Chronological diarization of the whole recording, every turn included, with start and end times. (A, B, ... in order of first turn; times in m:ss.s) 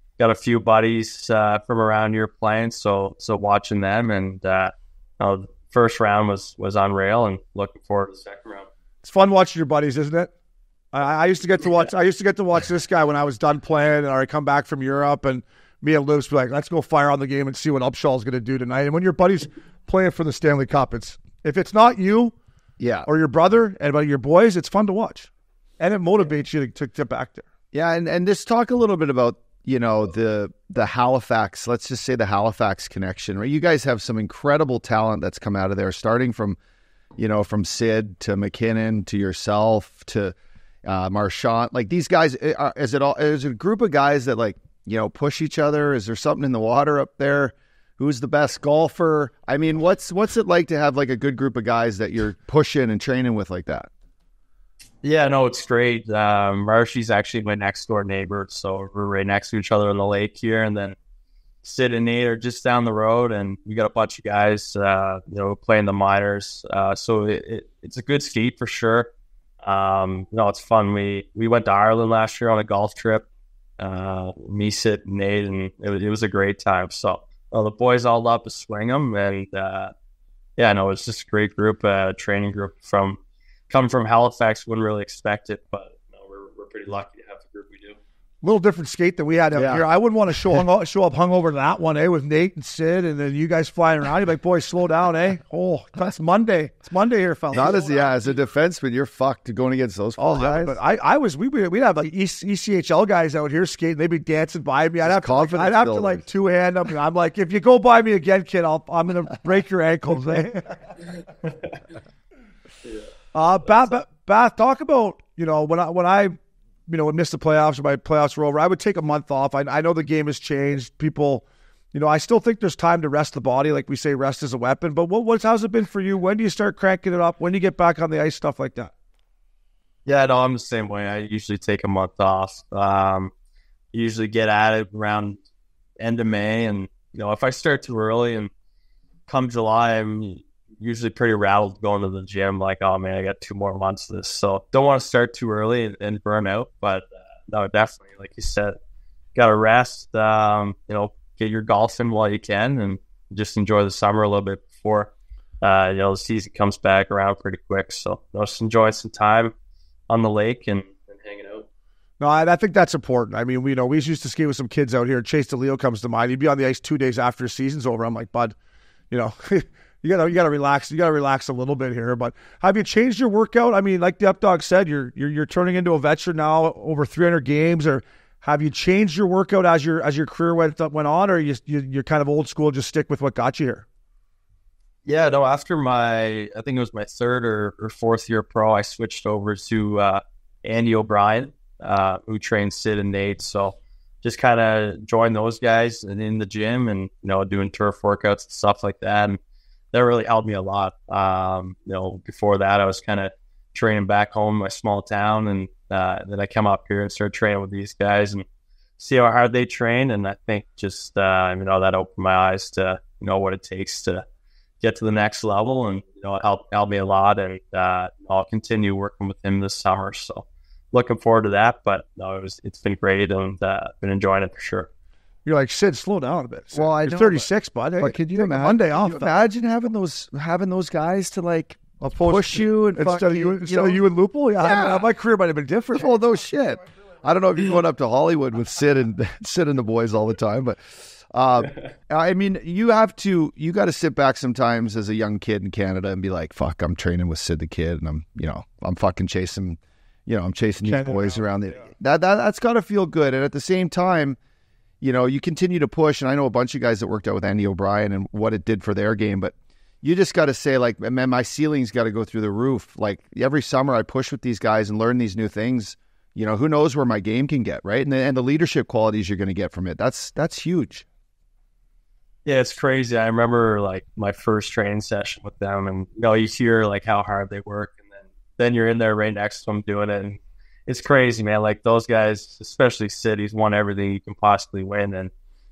0:00.2-0:08.7 A
0:09.0-0:10.3 B
0:10.9-0:22.4 B
0:22.8-0:23.1 C
0:23.1-0:25.3 B
0:25.8-0:27.4 B
0:27.7-0:36.6 C
0:37.2-0:53.9 C
0:55.0-1:01.0 A
1:01.6-1:09.1 A
1:09.6-1:13.3 A
1:13.8-1:19.9 A
1:20.6-1:28.0 A
1:28.4-1:37.8 B
1:29.6-1:29.8 C
1:37.5-1:40.8 C
1:40.2-1:50.8 B
1:45.0-1:46.2 C
1:51.4-1:51.8 A
1:52.8-1:53.1 A
1:53.3-1:56.4 B
1:53.7-1:54.0 A
1:56.9-2:08.9 B
2:10.1-2:13.3 A
2:13.9-2:15.4 A
2:16.0-2:18.5 A
2:19.3-2:28.8 A
2:29.4-2:39.5 A
2:40.1-2:41.7 A
2:42.2-2:48.6 B
2:49.1-3:03.9 B
3:05.1-3:19.4 A
3:19.9-3:28.4 A
3:29.0-3:34.2 A
3:34.8-3:44.9 A
3:45.5-3:49.3 B
3:46.7-3:47.5 C
3:48.0-3:54.0 C
3:52.0-3:56.1 B
3:54.6-3:55.1 C
3:56.0-4:14.4 C
4:10.8-4:11.3 B
4:15.0-4:31.0 C
4:32.5-4:45.3 A